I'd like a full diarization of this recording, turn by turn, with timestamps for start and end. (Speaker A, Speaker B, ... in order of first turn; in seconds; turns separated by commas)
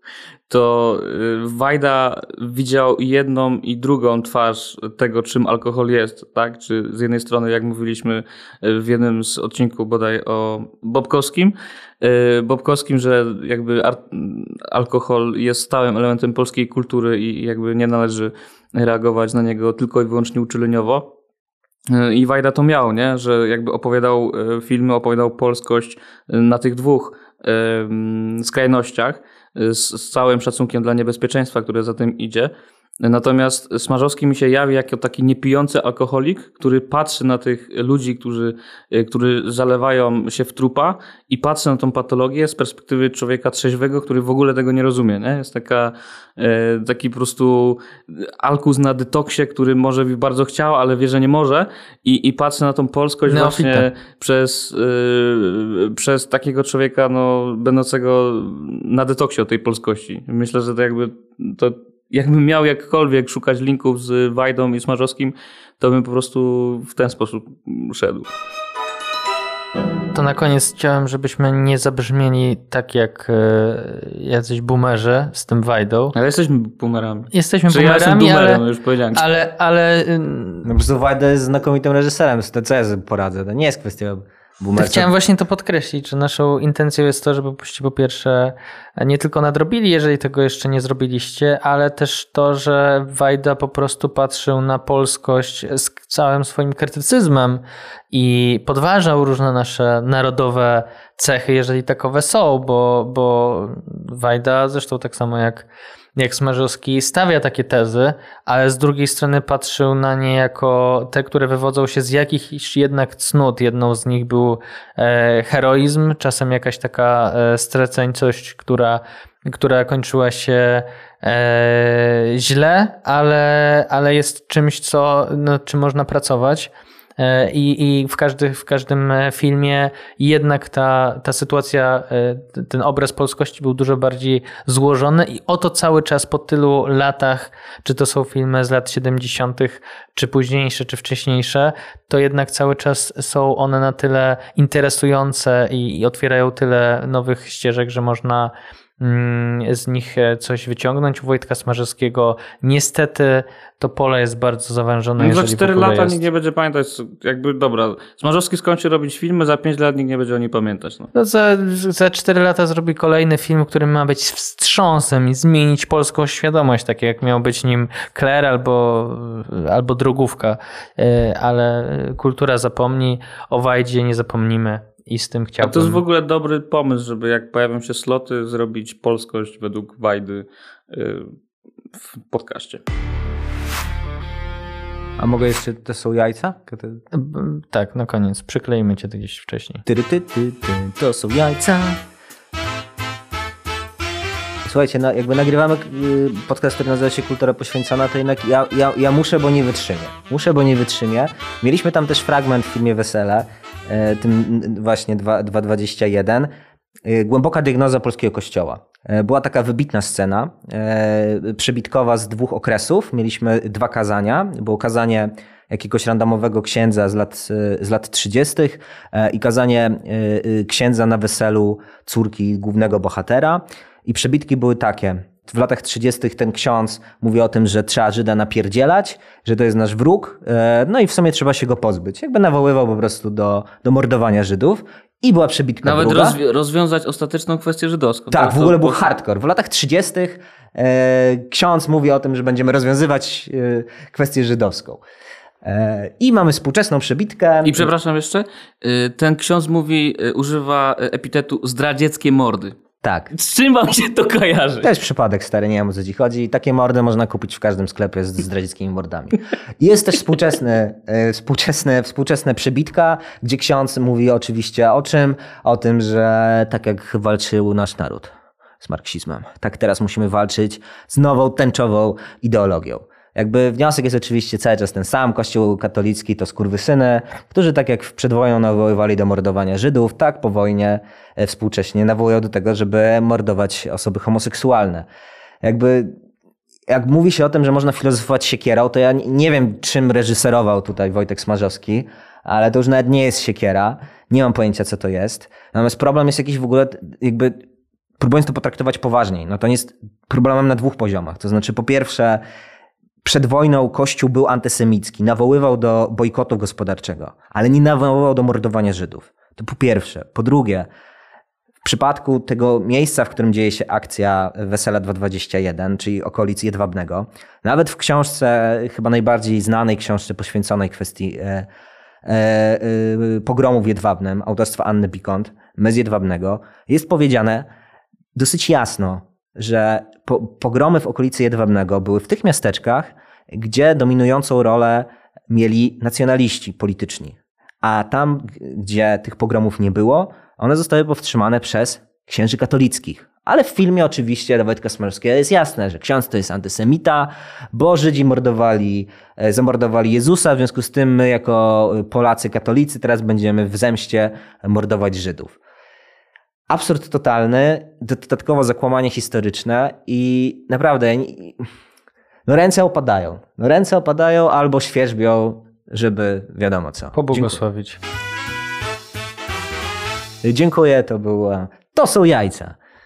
Speaker A: 0.5-21.1, Speaker A: 21.9-68.3, Speaker B: 53.3-53.9, Speaker B: 70.1-76.1, Speaker A: 76.1-79.2, Speaker B: 77.3-78.6, Speaker B: 79.1-80.7, Speaker C: 80.6-85.1, Speaker B: 84.8-156.2, Speaker A: 155.2-161.1, Speaker B: 161.1-176.0, Speaker A: 175.6-181.3, Speaker A: 182.0-182.8, Speaker C: 185.2-187.0, Speaker B: 187.1-189.8, Speaker C: 189.8-192.0, Speaker C: 194.6-206.5, Speaker C: 207.0-236.4, Speaker A: 235.8-239.1, Speaker C: 238.3-245.0, Speaker C: 245.6-247.9, Speaker A: 247.6-252.7, Speaker C: 253.0-253.3, Speaker A: 253.3-254.9, Speaker C: 254.8-285.1, Speaker C: 285.6-286.1, Speaker C: 286.9-297.6, Speaker C: 298.2-302.4, Speaker C: 303.2-310.9, Speaker C: 311.8-321.7, Speaker C: 322.2-327.7, Speaker C: 328.3-355.6, Speaker C: 356.7-361.6, Speaker C: 362.5-367.6, Speaker B: 367.1-368.0, Speaker C: 370.4-372.8